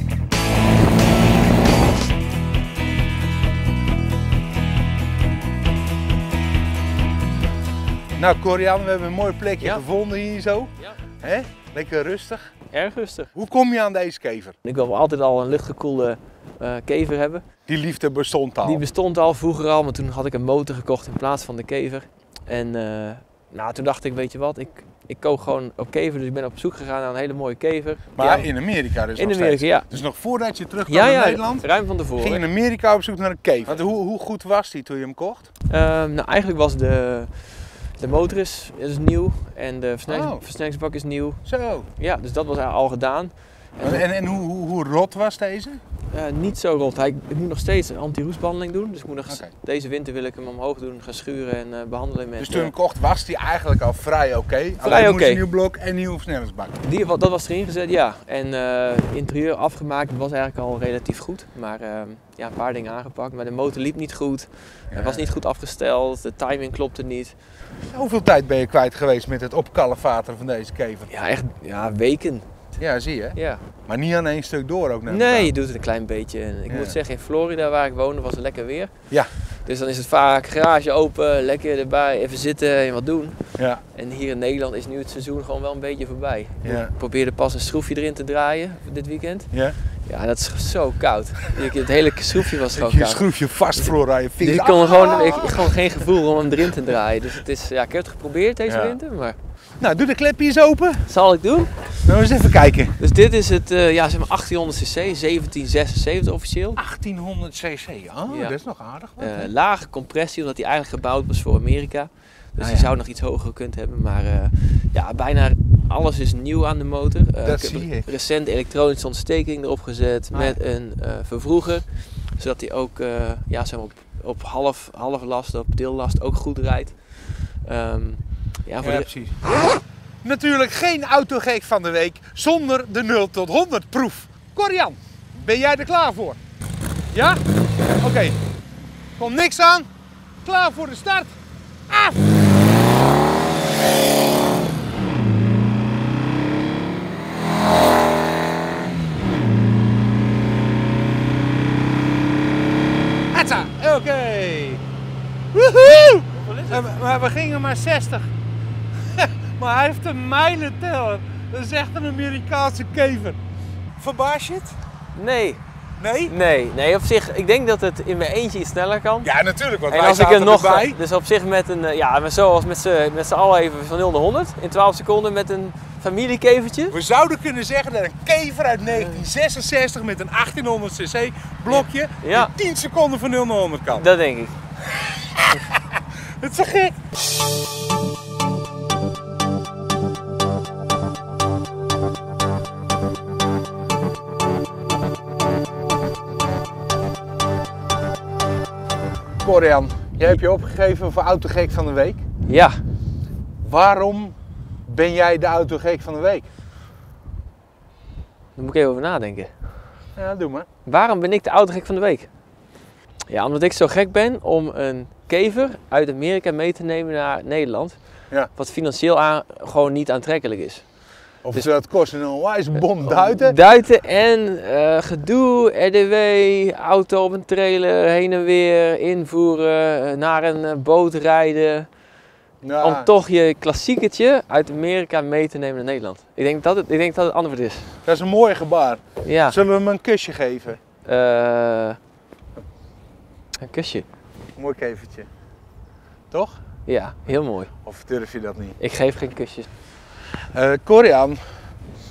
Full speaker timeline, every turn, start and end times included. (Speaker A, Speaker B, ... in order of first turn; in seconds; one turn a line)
Speaker A: 8.2-12.5
Speaker B: 12.7-13.3
Speaker A: 13.3-14.6
Speaker B: 14.6-17.4
Speaker A: 17.7-18.8
Speaker B: 18.6-28.5
Speaker A: 28.1-35.5
Speaker B: 29.1-29.9
Speaker B: 30.9-32.4
Speaker B: 35.7-41.4
Speaker A: 40.1-40.4
Speaker A: 41.5-41.9
Speaker B: 42.0-44.0
Speaker A: 43.8-45.8
Speaker B: 46.1-52.7
Speaker A: 52.4-56.8
Speaker B: 54.8-55.4
Speaker B: 56.8-67.4
Speaker A: 64.9-65.3
Speaker A: 67.9-71.1
Speaker B: 71.1-72.7
Speaker A: 72.8-75.5
Speaker B: 73.3-73.6
Speaker B: 75.1-99.3
Speaker A: 76.7-77.0
Speaker A: 86.6-86.9
Speaker A: 92.7-95.6
Speaker A: 98.7-99.0
Speaker A: 99.8-101.0
Speaker B: 101.0-102.0
Speaker A: 102.0-103.0
Speaker B: 103.0-106.8
Speaker A: 106.8-109.5
Speaker B: 108.3-108.6
Speaker B: 109.2-129.1
Speaker A: 112.6-112.9
Speaker A: 117.4-118.1
Speaker A: 120.3-120.6
Speaker A: 128.8-129.5
Speaker A: 130.2-136.4
Speaker A: 137.1-137.4
Speaker A: 138.0-138.4
Speaker A: 139.2-139.9
Speaker A: 140.4-141.3
Speaker A: 141.9-142.2
Speaker A: 153.3-154.8
Speaker A: 155.5-158.3
Speaker B: 156.3-156.8
Speaker A: 159.1-163.4
Speaker A: 164.0-164.8
Speaker B: 165.1-165.6
Speaker A: 166.0-166.3
Speaker B: 166.3-169.3
Speaker A: 169.2-171.0
Speaker B: 169.9-176.9
Speaker A: 176.9-184.1
Speaker B: 178.9-179.2
Speaker B: 181.7-182.5
Speaker B: 183.9-184.6
Speaker A: 184.9-187.0
Speaker A: 199.4-202.2
Speaker B: 202.5-202.8
Speaker A: 203.6-206.5
Speaker B: 208.6-209.5
Speaker A: 210.2-210.7
Speaker B: 210.8-212.3
Speaker B: 213.3-221.7
Speaker A: 221.4-223.6
Speaker B: 222.7-231.9
Speaker A: 232.6-233.1
Speaker B: 232.8-237.9
Speaker A: 238.0-240.8
Speaker B: 239.2-239.6
Speaker B: 241.0-242.0
Speaker B: 243.6-244.1
Speaker A: 244.5-245.3
Speaker A: 246.3-246.6
Speaker B: 246.9-247.7
Speaker A: 247.8-248.8
Speaker B: 248.8-249.7
Speaker A: 250.5-251.6